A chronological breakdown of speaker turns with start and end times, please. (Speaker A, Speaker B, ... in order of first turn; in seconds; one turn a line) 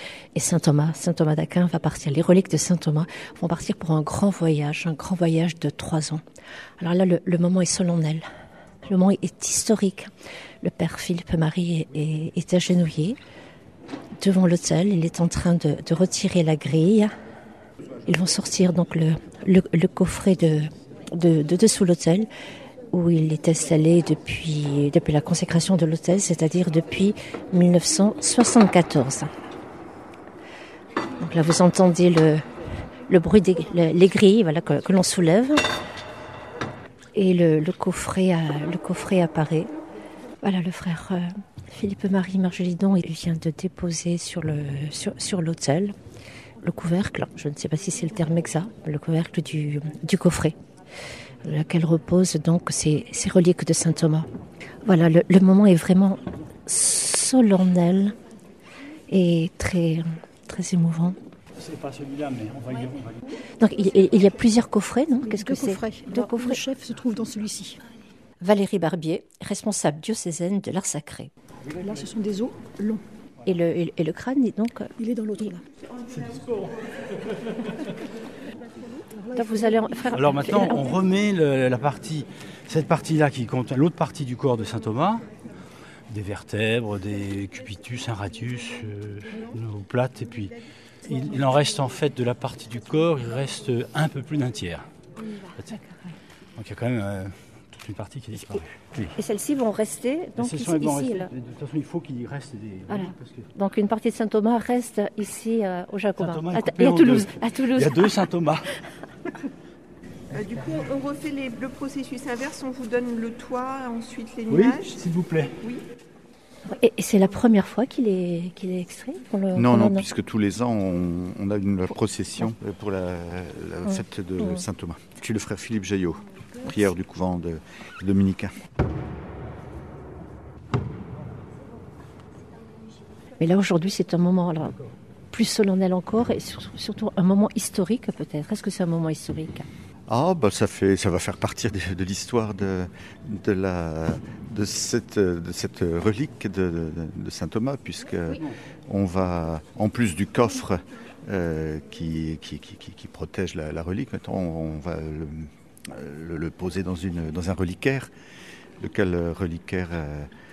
Speaker A: 0.3-6.2
Speaker A: 6.8-8.2
Speaker A: 8.8-10.1
Speaker A: 10.6-13.2
Speaker A: 14.2-17.1
Speaker A: 18.0-22.3
Speaker A: 22.9-29.3
Speaker A: 31.2-32.5
Speaker A: 33.0-35.6
Speaker A: 37.1-39.7
Speaker A: 40.4-46.0
Speaker A: 46.6-50.6
Speaker A: 51.4-54.3
Speaker A: 54.8-58.1
Speaker A: 59.1-61.2
Speaker B: 61.6-63.1
Speaker A: 63.6-66.6
Speaker C: 65.2-67.8
Speaker A: 68.4-71.3
Speaker C: 71.8-73.0
Speaker A: 73.4-75.5
Speaker C: 75.0-75.6
Speaker C: 79.2-79.7
Speaker A: 79.3-80.9
Speaker B: 80.1-85.2
Speaker B: 86.1-90.5
Speaker B: 91.0-94.8
Speaker B: 96.5-99.1
Speaker A: 99.1-101.3
Speaker B: 100.4-103.5
Speaker A: 102.9-108.1
Speaker B: 106.2-108.7
Speaker D: 110.3-115.0
Speaker B: 114.5-115.5
Speaker A: 116.7-120.0
Speaker E: 119.5-128.5
Speaker A: 123.8-124.6
Speaker A: 133.4-134.8
Speaker A: 135.3-139.7
Speaker E: 140.1-158.1
Speaker E: 158.8-160.3